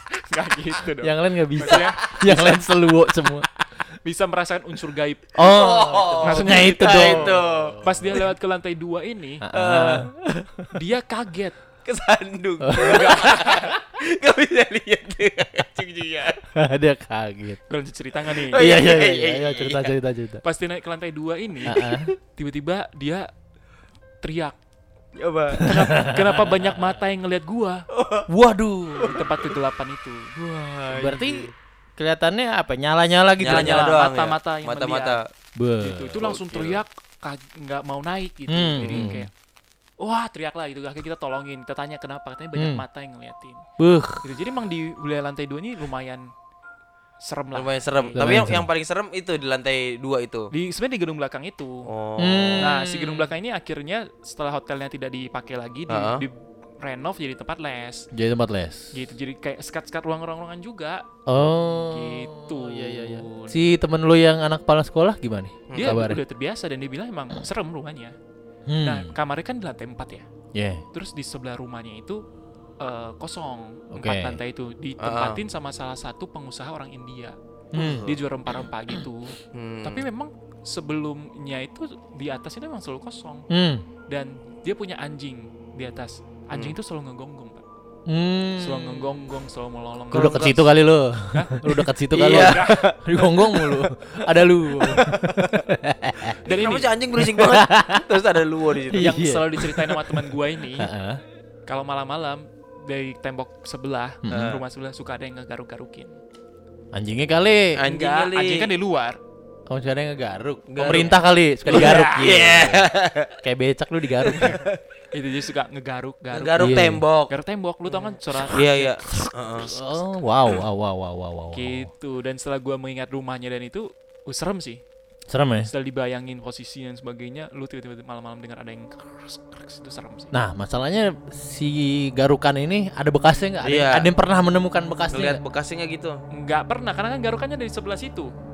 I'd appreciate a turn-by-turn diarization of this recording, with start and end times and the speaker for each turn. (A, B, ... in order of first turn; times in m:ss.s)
0:00.3-0:02.0 A
0:01.0-0:03.5 B
0:01.7-0:02.6 C
0:04.0-0:05.3 A
0:05.4-0:08.1 B
0:05.4-0:08.2 C
0:06.2-0:09.4 A
0:09.4-0:10.1 B
0:09.5-0:10.5 C
0:10.7-0:11.6 A
0:11.8-0:16.4 C
0:12.6-0:13.4 B
0:12.8-0:13.5 A
0:16.6-0:17.6 B
0:17.7-0:18.6 A
0:18.5-0:20.0 C
0:18.6-0:20.4 B
0:20.4-0:21.8 A
0:21.7-0:22.1 B
0:21.7-0:22.1 C
0:22.4-0:23.3 A
0:24.2-0:24.6 A
0:25.2-0:25.8 C
0:25.6-0:27.8 A
0:25.6-0:26.4 B
0:27.9-0:28.3 C
0:28.3-0:29.3 B
0:29.0-0:29.3 C
0:29.0-0:30.3 A
0:30.4-0:31.5 C
0:30.9-0:33.9 B
0:33.4-0:35.3 C
0:33.5-0:35.2 A
0:35.6-0:36.1 B
0:35.8-0:39.3 A
0:36.1-0:36.8 C
0:38.5-0:39.3 B
0:38.8-0:39.2 C
0:40.0-0:43.6 A
0:42.6-0:42.8 B
0:43.8-0:44.3 B
0:44.2-0:46.3 A
0:47.2-0:48.2 A
0:47.6-0:50.5 C
0:48.2-0:48.7 B
0:50.5-0:51.9 A
0:51.9-0:52.7 C
0:52.2-0:53.3 B
0:52.6-0:58.1 A
0:55.9-0:56.3 C
0:58.1-0:58.9 B
0:58.9-1:03.6 A
1:01.3-1:06.2 B
1:05.7-1:06.0 C
1:05.7-1:08.2 A
1:08.7-1:09.1 B
1:08.8-1:10.3 A
1:10.5-1:10.8 B
1:10.9-1:12.2 A
1:12.8-1:17.4 A
1:13.9-1:14.4 B
1:15.0-1:15.4 C
1:17.7-1:18.1 B
1:17.8-1:18.2 C
1:18.0-1:23.4 A
1:19.5-1:20.0 C
1:23.5-1:23.8 B
1:24.1-1:27.6 A
1:28.1-1:29.2 B
1:28.6-1:30.7 A
1:30.1-1:36.4 B
1:30.2-1:30.5 C
1:31.3-1:32.8 A
1:32.1-1:32.8 C
1:33.4-1:35.6 C
1:36.4-1:36.9 A
1:36.5-1:39.1 C
1:37.2-1:38.1 B
1:38.9-1:41.2 B
1:39.0-1:40.9 A
1:41.7-1:46.2 A
1:44.2-1:44.6 B
1:44.3-1:44.6 C
1:46.9-1:47.8 B
1:47.8-1:48.7 C
1:47.9-1:49.2 A
1:49.7-1:52.9 B
1:50.7-1:53.3 C
1:51.7-1:52.3 A
1:53.4-1:54.6 B
1:54.2-1:54.8 C
1:55.1-1:59.0 A
1:56.3-1:57.3 C
1:56.6-1:57.0 B
1:57.9-1:59.7 C
1:59.6-2:01.9 B
2:01.5-2:04.8 A
2:05.3-2:05.7 B
2:05.7-2:10.3 A
2:10.3-2:15.4 B
2:13.6-2:14.1 C
2:15.1-2:16.2 C
2:16.3-2:18.3 A